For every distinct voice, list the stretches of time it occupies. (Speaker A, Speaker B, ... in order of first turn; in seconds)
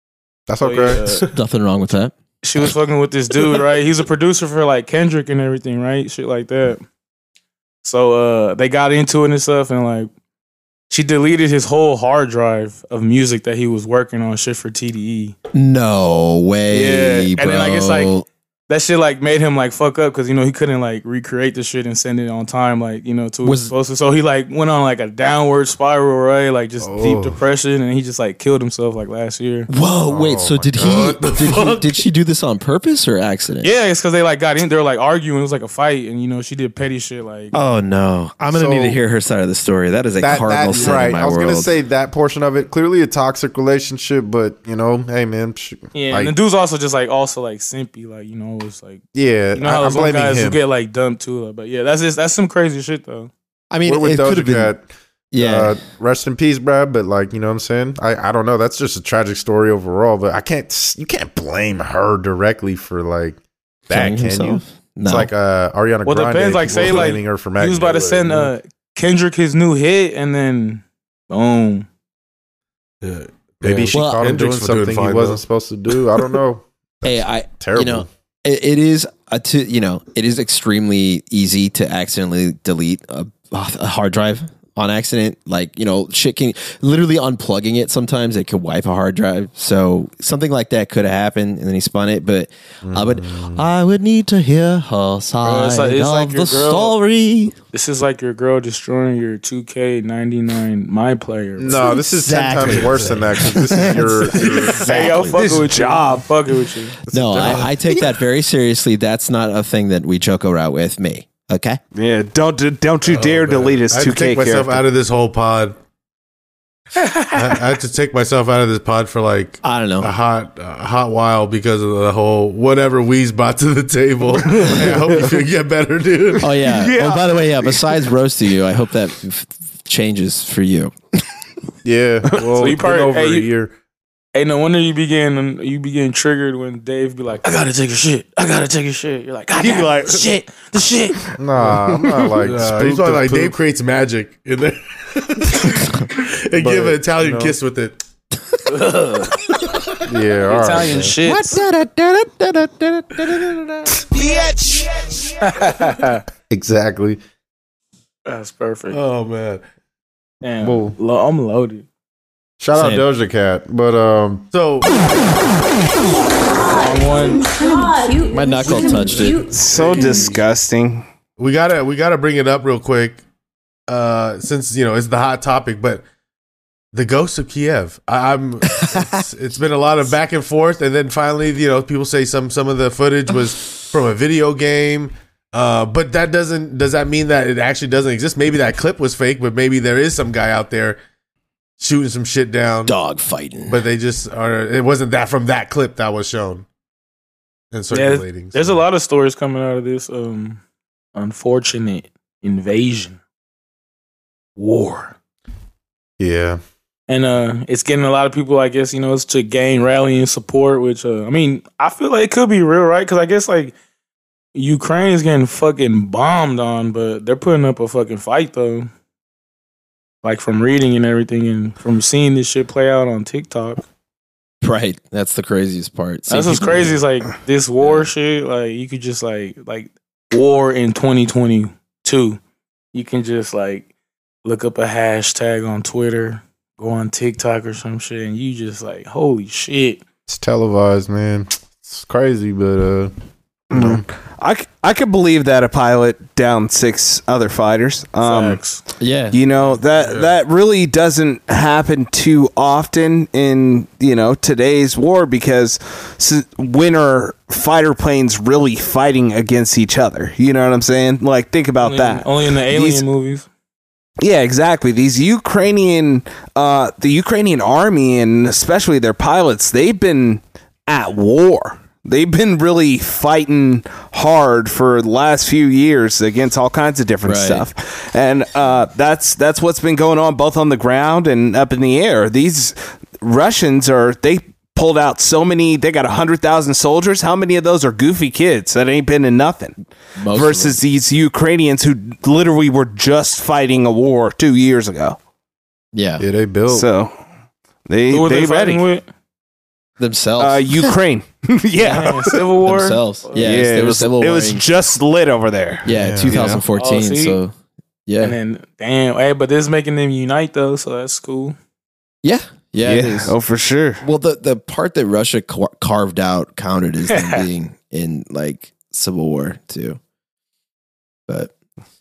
Speaker A: 0.5-1.0, 26.8-27.3, 30.1-31.1, 38.5-39.0, 40.2-46.3, 49.1-50.6, 53.9-68.5, 73.6-78.1, 92.8-93.7, 101.6-105.2, 107.1-107.8, 124.7-125.3, 131.8-133.7, 141.4-143.6, 146.5-147.6, 150.1-151.1, 156.5-157.2, 160.6-161.0, 162.6-164.5, 206.2-206.6, 240.3-243.1, 243.7-244.1, 296.2-296.9, 305.9-306.6
Speaker B: 0.6-1.3, 2.4-6.8, 7.8-10.1, 10.9-15.3, 16.7-18.1, 18.7-29.7, 33.6-37.5, 45.9-49.0, 49.5-53.3, 66.0-71.9, 95.4-96.9, 97.7-101.9, 104.7-107.0, 117.0-117.5, 132.6-133.5, 134.3-141.2, 148.7-149.4, 150.5-151.6, 155.4-156.2, 158.2-159.0, 160.4-161.8, 166.7-167.6, 197.9-200.6, 201.1-203.2, 204.6-205.1, 207.1-213.7, 214.5-218.9, 220.2-223.8, 226.3-232.4, 232.9-233.9, 234.4-240.0, 248.2-248.8, 261.8-263.5, 298.1-299.1, 301.8-303.5, 306.7-307.4, 308.2-311.6, 317.1-317.4
Speaker C: 1.3-2.1, 15.5-18.2, 23.4-23.7, 29.7-33.7, 37.5-41.7, 53.7-54.7, 55.3-55.8, 63.9-65.3, 73.9-74.3, 77.0-97.5, 101.8-105.4, 107.1-111.8, 119.6-120.1, 126.4-130.9, 151.2-154.0, 162.7-163.0, 168.3-169.4, 178.7-179.1, 192.8-193.8, 224.6-227.0, 249.0-249.4, 277.2-277.6, 290.1-290.8, 295.9-296.2, 300.0-300.9, 302.6-304.6, 305.8-307.5, 308.1-308.4, 312.2-313.3, 314.0-320.0
Speaker D: 30.8-31.9, 66.7-67.2, 73.0-75.4, 102.6-103.3, 107.4-107.7, 113.0-115.8, 117.3-126.5, 141.6-148.0, 149.5-150.0, 158.9-159.6, 164.5-165.1, 169.1-170.4, 171.4-173.2, 173.9-176.0, 176.9-191.0, 191.8-192.9, 193.7-196.7, 197.7-198.8, 249.9-250.3
Speaker E: 105.4-106.2, 111.9-114.8, 126.7-127.1, 139.6-140.2, 169.5-171.1, 243.7-248.6, 249.3-263.0, 264.2-289.8, 290.3-295.2, 296.7-297.1, 297.9-298.8, 300.4-302.4, 303.4-306.4, 312.8-314.0